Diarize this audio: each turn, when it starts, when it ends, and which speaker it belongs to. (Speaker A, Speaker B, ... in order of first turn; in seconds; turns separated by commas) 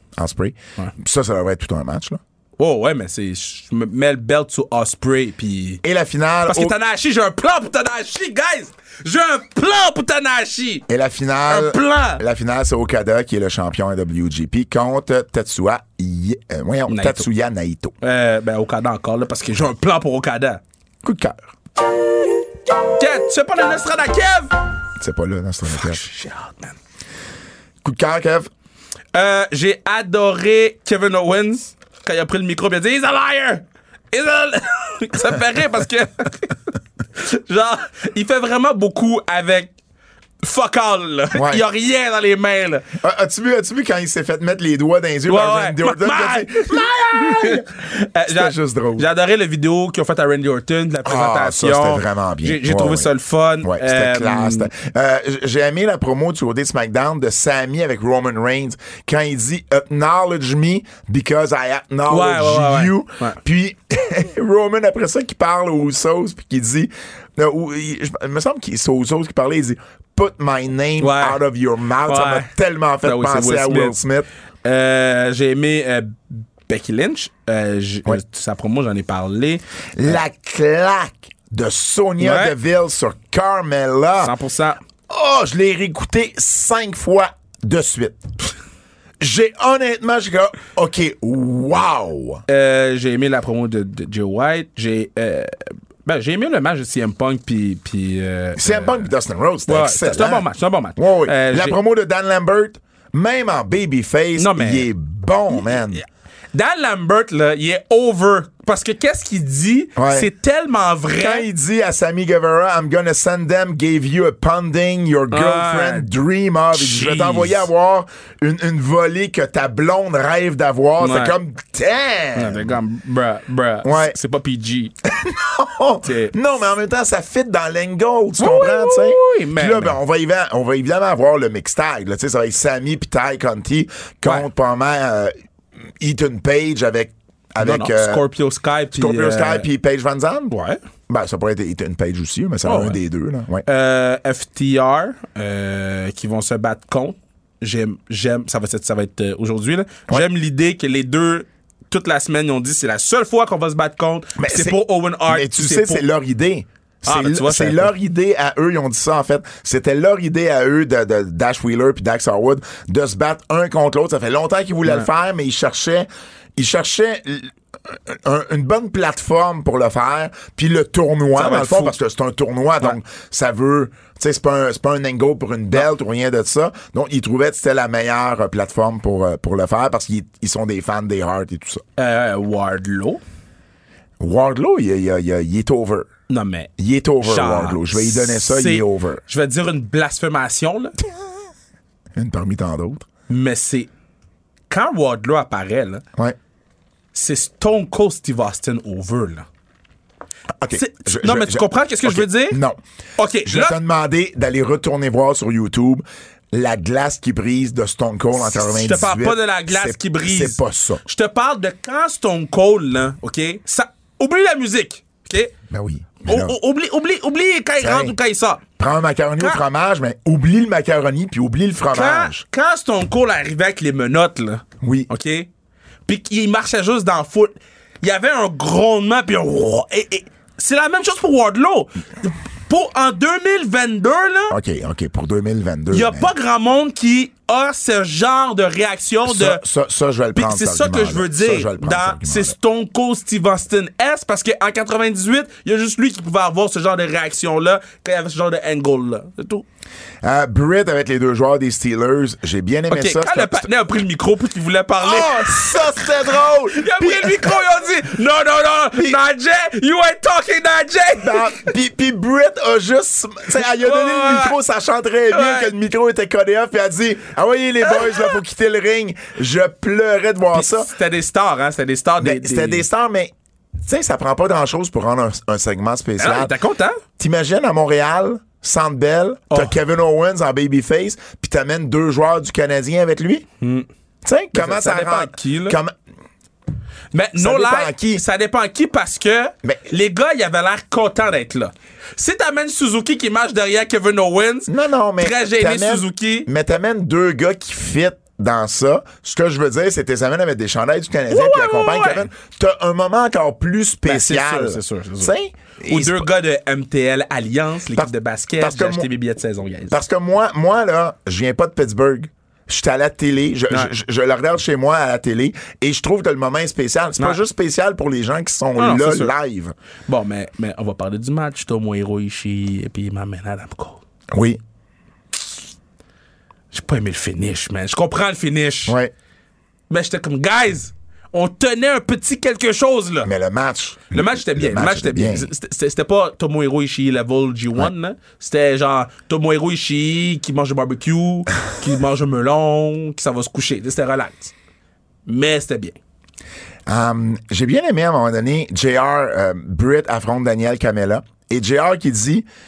Speaker A: 0.2-2.2, Speaker B: 2.6-5.8, Speaker A: 5.8-6.7, Speaker B: 6.5-10.9, Speaker A: 10.9-17.9, Speaker B: 11.5-12.2, Speaker B: 16.9-17.2, Speaker B: 18.0-20.6, Speaker A: 21.0-21.5, Speaker B: 22.9-24.6, Speaker A: 25.0-26.0, Speaker B: 25.7-26.8, Speaker A: 27.8-28.5, Speaker B: 29.1-36.6, Speaker B: 37.1-39.7, Speaker B: 40.4-42.9, Speaker A: 41.3-41.6, Speaker A: 42.9-47.7, Speaker B: 45.3-54.7, Speaker A: 48.2-49.1, Speaker A: 51.0-74.3, Speaker B: 62.1-63.4, Speaker B: 71.0-71.4, Speaker B: 72.0-72.5, Speaker B: 73.0-74.0, Speaker B: 74.6-80.2, Speaker A: 80.0-84.3, Speaker B: 82.2-82.5, Speaker B: 84.2-84.8, Speaker A: 85.1-88.2, Speaker A: 89.2-92.4, Speaker B: 92.5-99.1, Speaker A: 98.6-100.5, Speaker B: 99.7-101.8, Speaker A: 101.0-106.0, Speaker B: 104.3-104.9, Speaker B: 106.5-111.5, Speaker A: 110.0-110.3, Speaker A: 111.1-122.8, Speaker B: 115.3-116.1, Speaker B: 116.7-117.7, Speaker B: 121.0-121.3, Speaker B: 122.3-124.9, Speaker A: 123.8-124.2, Speaker A: 125.0-135.3, Speaker B: 126.0-126.3, Speaker B: 128.4-130.0, Speaker A: 136.0-138.2, Speaker B: 137.6-139.7, Speaker A: 138.9-140.5, Speaker B: 140.5-140.8, Speaker A: 141.1-143.6, Speaker B: 142.6-143.0, Speaker B: 143.6-156.0, Speaker A: 154.4-181.8, Speaker B: 157.1-157.9, Speaker B: 171.3-171.9, Speaker B: 182.0-183.2, Speaker A: 184.2-186.1, Speaker B: 186.3-186.7, Speaker A: 186.8-189.2, Speaker B: 187.2-190.9, Speaker A: 192.2-193.1, Speaker B: 193.3-193.9, Speaker B: 194.7-196.0, Speaker B: 197.1-199.5, Speaker A: 200.6-202.8, Speaker B: 200.7-202.6, Speaker B: 203.2-203.8, Speaker A: 203.4-211.0, Speaker B: 208.4-215.5, Speaker A: 215.7-216.6, Speaker B: 216.2-218.6, Speaker A: 217.8-218.1, Speaker A: 218.8-222.4, Speaker B: 221.9-225.5, Speaker A: 224.8-225.1, Speaker B: 226.1-234.6, Speaker A: 234.5-236.3, Speaker B: 235.9-239.6, Speaker A: 239.2-242.6, Speaker B: 240.3-249.6, Speaker A: 250.2-253.7, Speaker B: 252.9-261.7, Speaker A: 255.0-257.6, Speaker A: 261.2-270.9, Speaker B: 263.7-264.6, Speaker B: 265.3-265.7, Speaker B: 267.8-268.4, Speaker B: 270.5-272.8, Speaker A: 272.2-276.5, Speaker B: 276.2-277.0, Speaker A: 277.2-283.5, Speaker B: 283.6-283.9, Speaker A: 284.2-285.9, Speaker B: 284.5-285.8, Speaker B: 287.1-296.5, Speaker A: 287.4-288.2, Speaker A: 294.7-306.3, Speaker B: 301.3-302.3, Speaker B: 304.0-305.3, Speaker B: 305.9-310.0, Speaker A: 307.9-309.1, Speaker A: 309.9-319.7, Speaker B: 318.8-319.3, Speaker B: 320.1-324.0, Speaker A: 324.3-324.6, Speaker B: 326.7-328.9, Speaker A: 328.9-329.1, Speaker B: 329.9-333.3, Speaker A: 333.2-335.5, Speaker B: 334.1-344.5, Speaker B: 345.2-345.9, Speaker A: 346.9-352.4